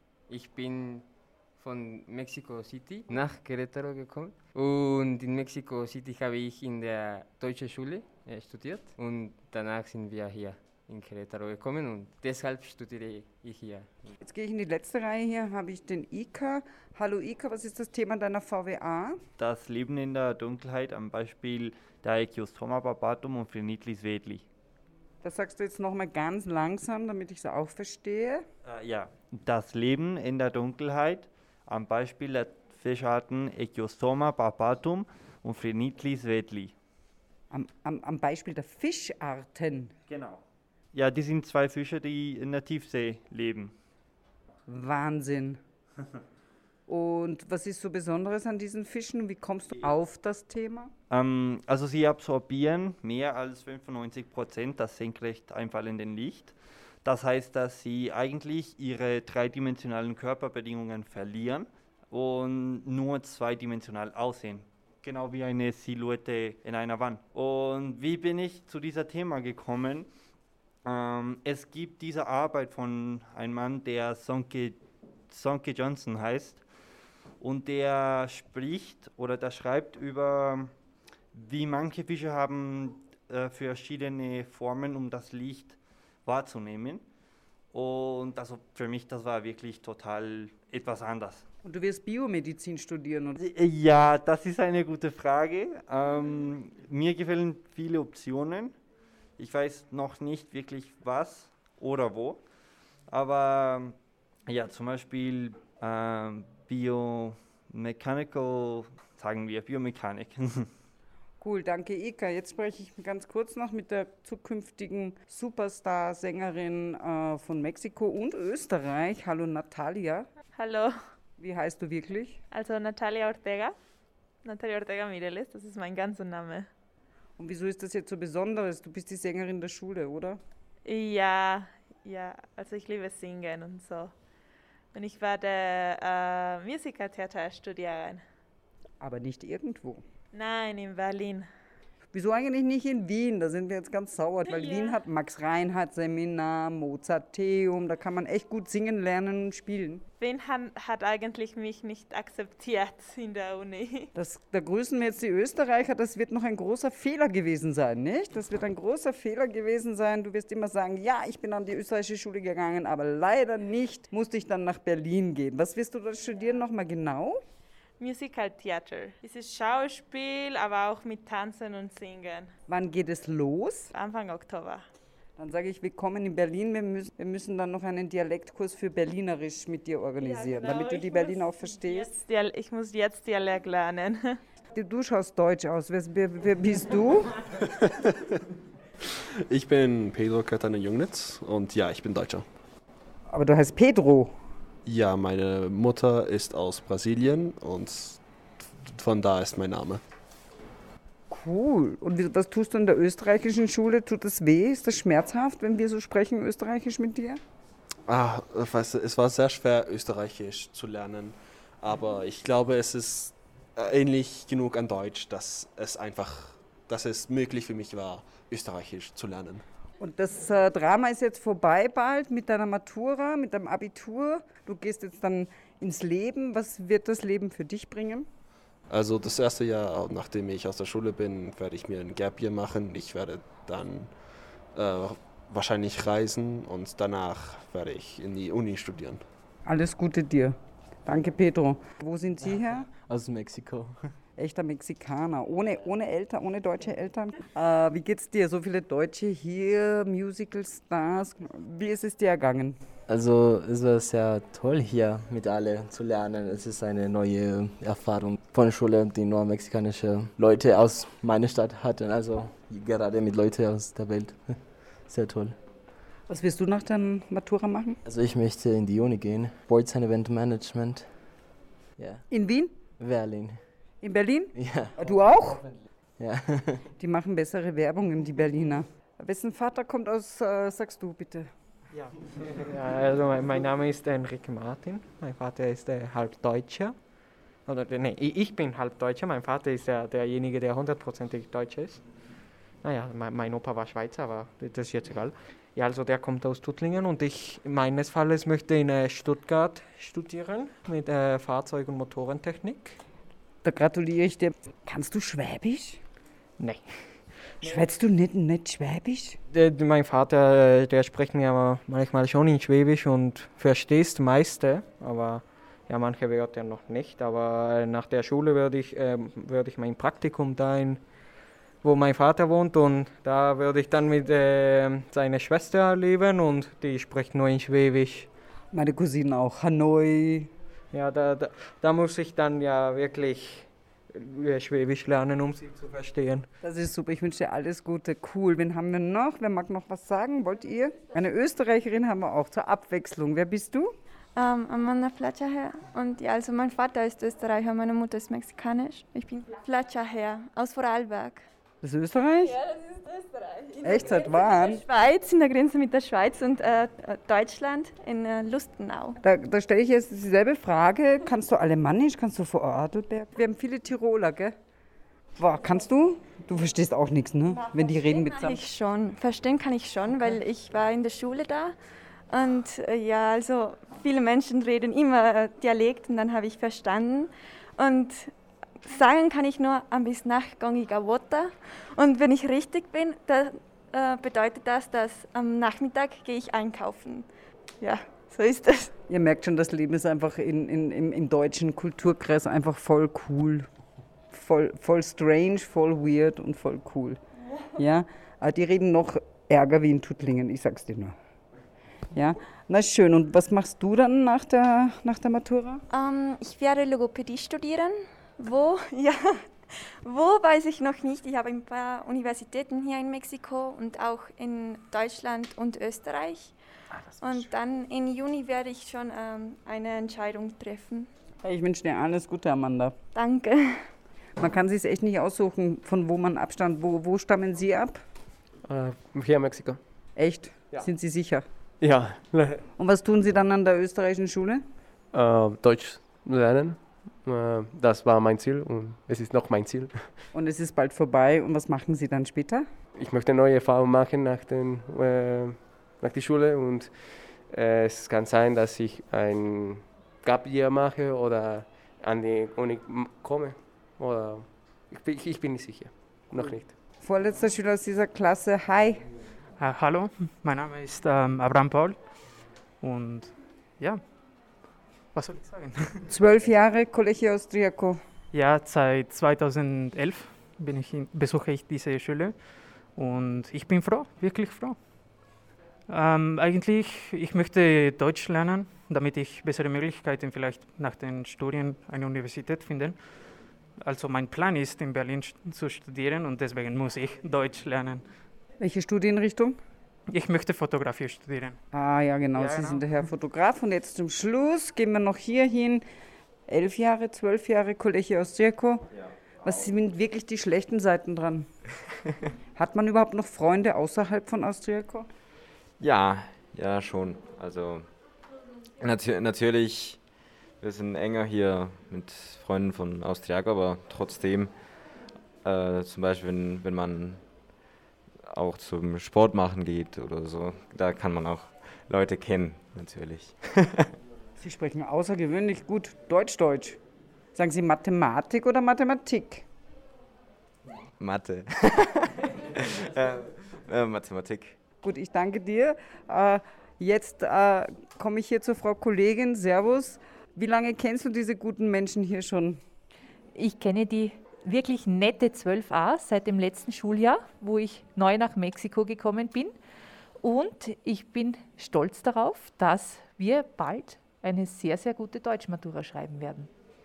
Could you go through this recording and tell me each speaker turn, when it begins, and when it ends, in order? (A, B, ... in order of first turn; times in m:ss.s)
0:00.3-0:14.1 A
0:14.2-0:19.2 B
0:19.4-0:24.4 C
0:25.2-0:28.4 B
0:28.6-0:36.7 C
0:37.5-0:39.9 B
0:40.1-0:40.4 C
0:40.9-0:43.8 C
0:44.7-0:45.6 B
0:46.9-0:50.9 B
0:51.1-1:10.1 C
1:10.8-1:16.6 C
1:17.4-1:20.7 C
1:21.3-1:27.0 C
1:27.7-1:31.4 C
1:31.6-1:33.4 B
1:33.4-1:38.8 C
1:39.4-1:42.4 C
1:43.1-1:43.9 C
1:44.5-1:50.7 C
1:51.4-2:00.3 B
2:00.5-2:00.9 D
2:01.4-2:02.4 B
2:02.5-2:03.7 D
2:04.4-2:06.7 D
2:07.4-2:10.4 B
2:10.8-2:14.1 D
2:14.9-2:18.2 D
2:19.0-2:20.0 B
2:20.3-2:21.5 D
2:22.1-2:30.0 B
2:24.4-2:25.0 D
2:30.2-2:34.1 D
2:34.1-2:47.4 B
2:48.0-2:52.5 D
2:52.7-2:53.9 B
2:53.9-2:54.8 D
2:55.4-3:02.2 B
3:00.2-3:04.4 D
3:04.7-3:07.3 B
3:09.5-3:12.5 E
3:13.3-3:14.3 B
3:14.8-3:20.0 E
3:21.3-3:27.4 B
3:28.0-3:39.6 E
3:40.0-3:48.3 B
3:48.9-3:59.2 E
3:59.6-4:02.9 B
4:03.1-4:03.9 F
4:04.4-4:12.8 B
4:13.1-4:19.3 F
4:20.0-4:21.0 F
4:22.4-4:24.3 F
4:25.1-4:25.5 F
4:26.3-4:28.0 B
4:28.1-4:30.2 F
4:32.3-4:32.7 B
4:33.0-4:33.5 F
4:34.0-4:35.6 B
4:37.0-4:41.5 B
4:41.9-4:52.2 G
4:52.8-5:03.0 G
5:03.6-5:06.0 B
5:06.6-5:07.8 G
5:07.6-5:09.4 B
5:09.5-5:21.3 G
5:21.8-5:28.3 G
5:28.7-5:30.5 B
5:30.9-5:36.5 G
5:36.6-5:43.9 B
5:44.4-5:51.4 H
5:51.8-5:52.6 B
5:52.4-5:54.7 D
5:53.8-5:54.8 B
5:54.8-5:59.2 H
5:59.2-6:04.6 B
6:05.4-6:08.6 B
6:07.5-6:11.8 H
6:12.3-6:27.3 H
6:27.8-6:28.9 H
6:29.1-6:33.7 B
6:34.3-6:37.2 B
6:37.8-6:41.2 B
6:42.1-6:45.8 B
6:45.9-6:49.2 H
6:50.0-6:56.6 H
6:57.2-7:01.1 H
7:01.4-7:02.9 B
7:03.1-7:03.6 H
7:04.4-7:08.0 B
7:10.2-7:11.4 B
7:12.8-7:14.6 B
7:20.3-7:22.7 B
7:37.0-7:39.0 B
7:39.6-7:44.1 I
7:45.1-7:46.0 I
7:46.1-7:48.0 B
7:48.3-7:55.3 I
7:55.9-8:08.3 I
8:08.6-8:09.6 B
8:10.1-8:11.6 I
8:11.7-8:15.8 B
8:12.3-8:13.0 I
8:16.5-8:18.9 B
8:19.4-8:21.5 B
8:22.5-8:25.1 B
8:25.8-8:28.1 J
8:28.8-8:43.9 J
8:44.4-8:46.8 B
8:47.3-8:49.4 B
8:51.0-8:52.0 J
8:52.8-8:54.6 J
8:54.8-9:02.6 B
9:03.3-9:09.5 K
9:10.2-9:16.5 K